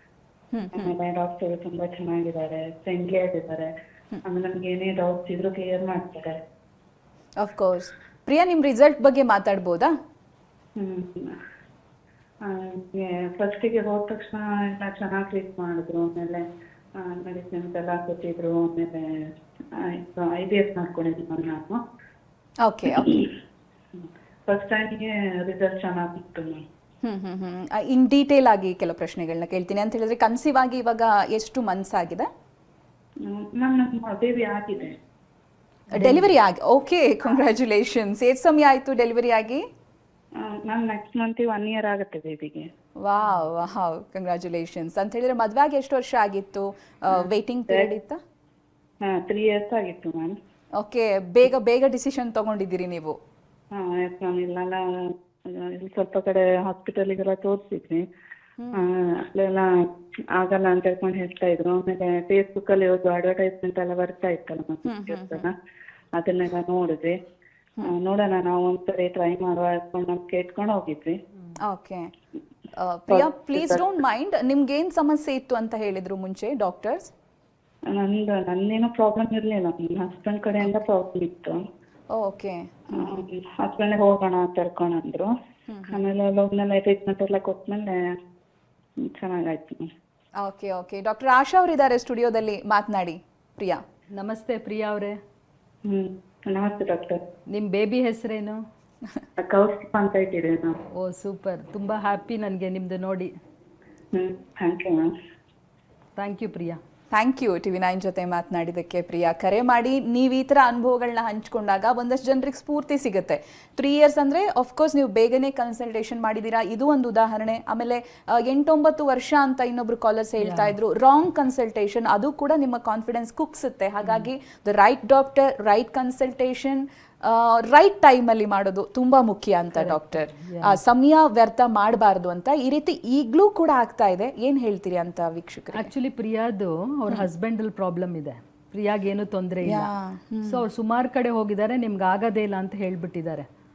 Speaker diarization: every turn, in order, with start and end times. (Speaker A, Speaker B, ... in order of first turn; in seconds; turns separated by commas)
Speaker A: 0.5-0.9, Speaker B: 0.8-3.7, Speaker B: 4.2-6.4, Speaker A: 7.4-9.9, Speaker B: 10.8-11.4, Speaker B: 12.4-16.4, Speaker B: 17.0-19.0, Speaker B: 19.8-21.8, Speaker A: 22.6-23.2, Speaker B: 22.9-23.3, Speaker B: 23.9-26.6, Speaker A: 27.0-32.3, Speaker B: 33.2-35.0, Speaker C: 35.9-36.3, Speaker A: 36.0-39.6, Speaker B: 40.4-42.6, Speaker A: 43.0-48.2, Speaker B: 49.0-50.3, Speaker A: 50.8-53.2, Speaker B: 53.7-54.8, Speaker B: 55.5-58.0, Speaker B: 58.7-59.6, Speaker B: 60.4-65.5, Speaker A: 64.9-65.5, Speaker B: 66.2-67.1, Speaker B: 67.8-71.2, Speaker A: 71.6-72.1, Speaker A: 72.8-77.1, Speaker B: 73.1-73.8, Speaker B: 77.9-81.6, Speaker A: 82.1-83.2, Speaker B: 82.9-85.3, Speaker A: 85.7-86.0, Speaker B: 85.9-88.0, Speaker B: 89.0-89.9, Speaker A: 90.4-93.8, Speaker C: 94.1-95.2, Speaker B: 95.9-97.2, Speaker C: 97.5-98.6, Speaker B: 99.4-100.8, Speaker C: 101.0-103.3, Speaker B: 104.1-105.0, Speaker C: 106.2-106.8, Speaker A: 107.1-135.9, Speaker C: 120.4-120.8, Speaker C: 129.7-130.8, Speaker C: 135.7-139.9, Speaker A: 139.6-140.6, Speaker C: 140.4-143.4